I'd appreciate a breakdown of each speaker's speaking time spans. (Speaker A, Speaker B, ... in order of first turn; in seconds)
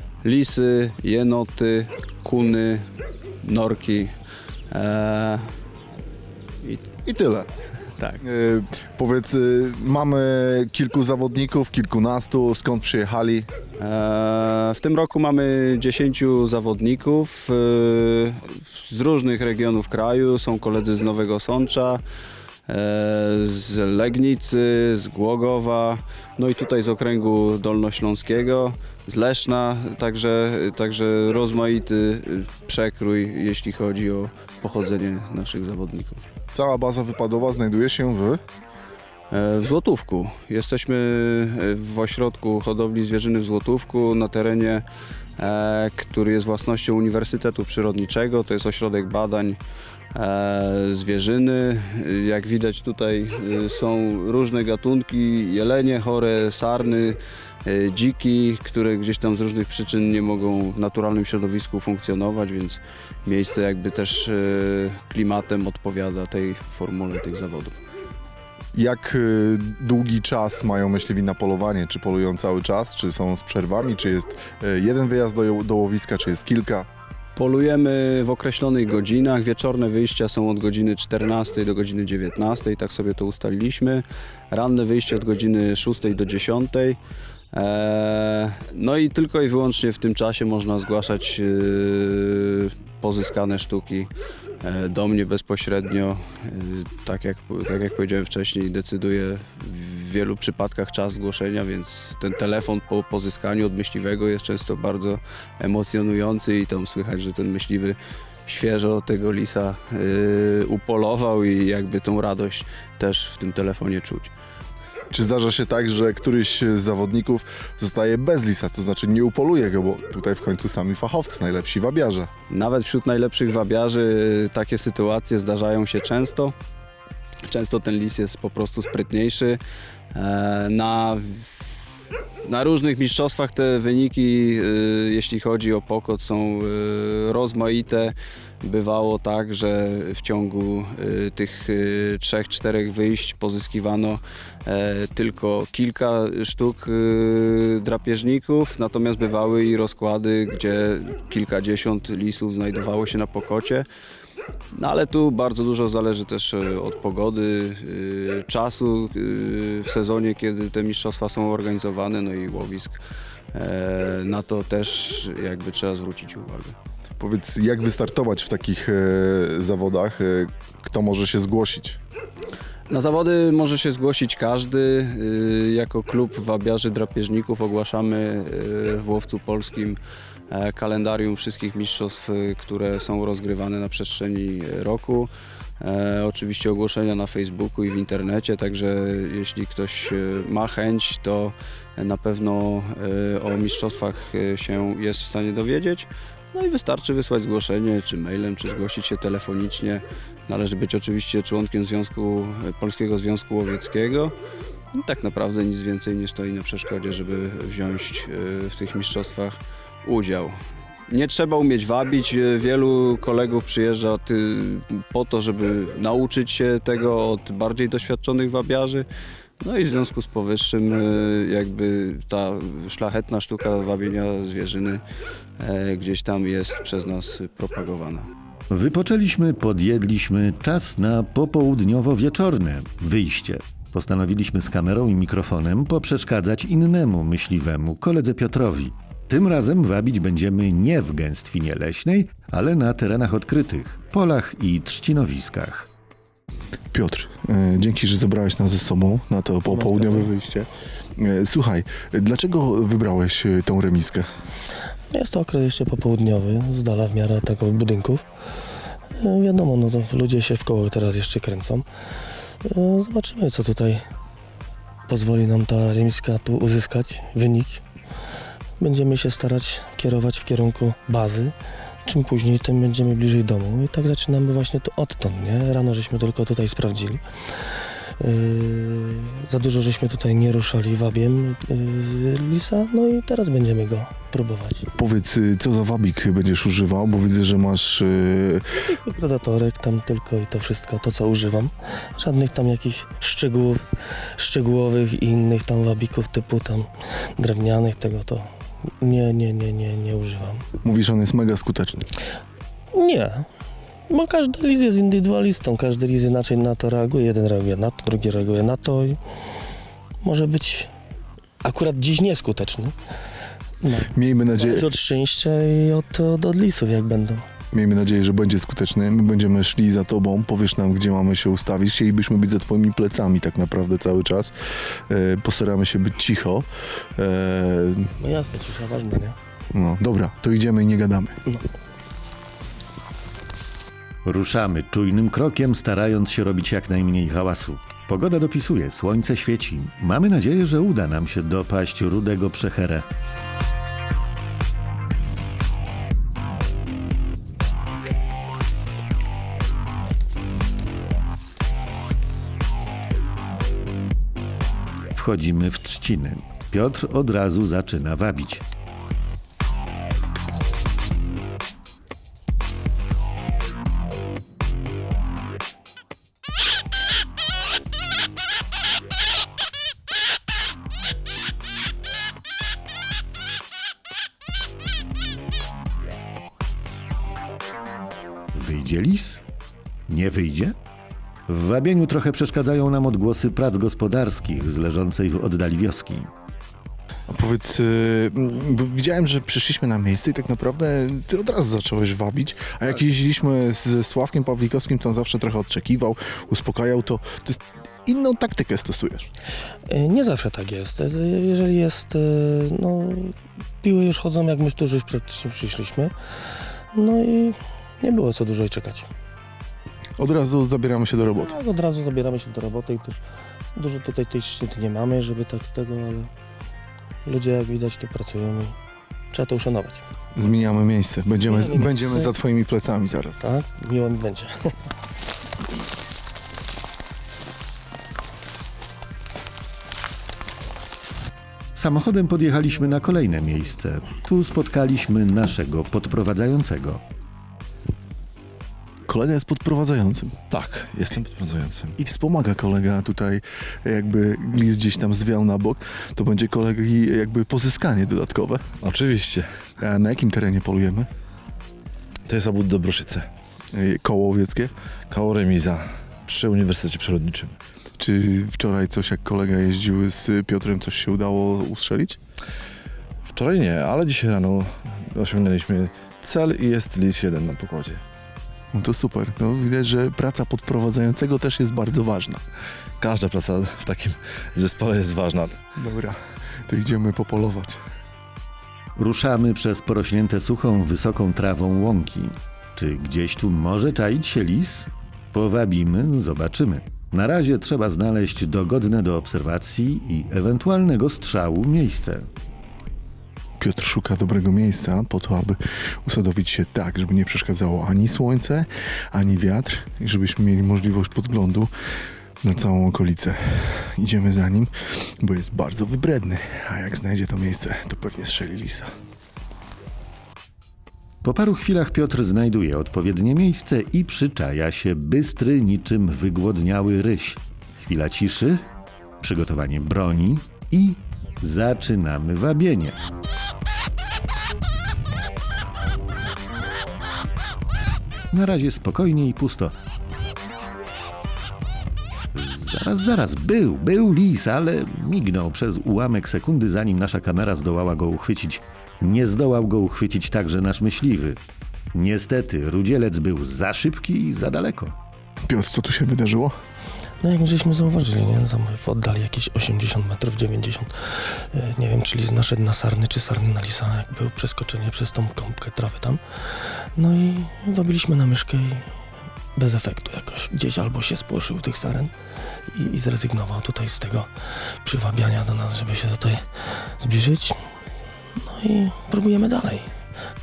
Speaker A: 0.2-2.9, 3.4-4.1, 4.7-5.5, 6.6-6.9, 8.0-8.2, 13.8-22.0, 22.7-36.2, 39.3-44.8, 45.4-49.6, 50.1-67.8, 77.4-87.0, 87.5-94.1, 94.6-114.3, 122.5-126.5, 127.5-129.6, 130.1-131.9, 132.4-153.9, 154.7-163.0, 163.5-166.8, 172.9-180.0, 180.5-204.3, 205.0-219.1, 219.6-225.0, 225.6-228.3
Speaker B: 7.0-7.5, 8.2-13.5, 36.5-38.4, 68.7-76.9, 115.1-122.3, 167.2-172.0, 246.9-254.3, 285.0-288.7, 300.8-302.1, 314.1-314.9, 317.7-328.1, 329.7-331.4, 387.3-399.3, 410.2-411.6, 420.4-423.4, 439.1-440.4, 442.0-448.7, 449.8-451.1, 453.7-454.7, 458.0-462.2, 468.7-472.4, 475.8-477.8, 493.6-501.7, 502.4-508.9, 545.5-546.5
Speaker C: 228.7-245.9, 334.2-343.1, 355.1-358.6, 378.5-379.4, 380.1-380.8, 381.5-386.3, 431.8-437.0, 479.0-492.3, 511.2-518.6, 519.2-523.0, 528.3-529.8, 532.3-541.4, 541.9-545.0
Speaker D: 249.7-250.2, 255.1-258.2, 259.1-261.9, 262.6-264.1, 265.1-267.8, 268.8-271.5, 272.1-284.9, 288.8-298.5, 299.0-300.6, 302.9-303.5, 304.1-309.2, 310.2-310.9, 311.6-313.0, 313.8-317.4, 328.2-329.4, 399.9-409.1, 411.4-413.2, 413.8-416.3, 417.3-418.8, 419.3-420.0, 421.4-422.3, 423.4-424.7, 547.2-558.9, 559.6-562.1, 562.7-567.6, 568.4-569.9
Speaker E: 440.5-442.0, 448.8-449.5, 452.3-453.3, 455.1-457.6, 463.2-468.0, 473.0-475.6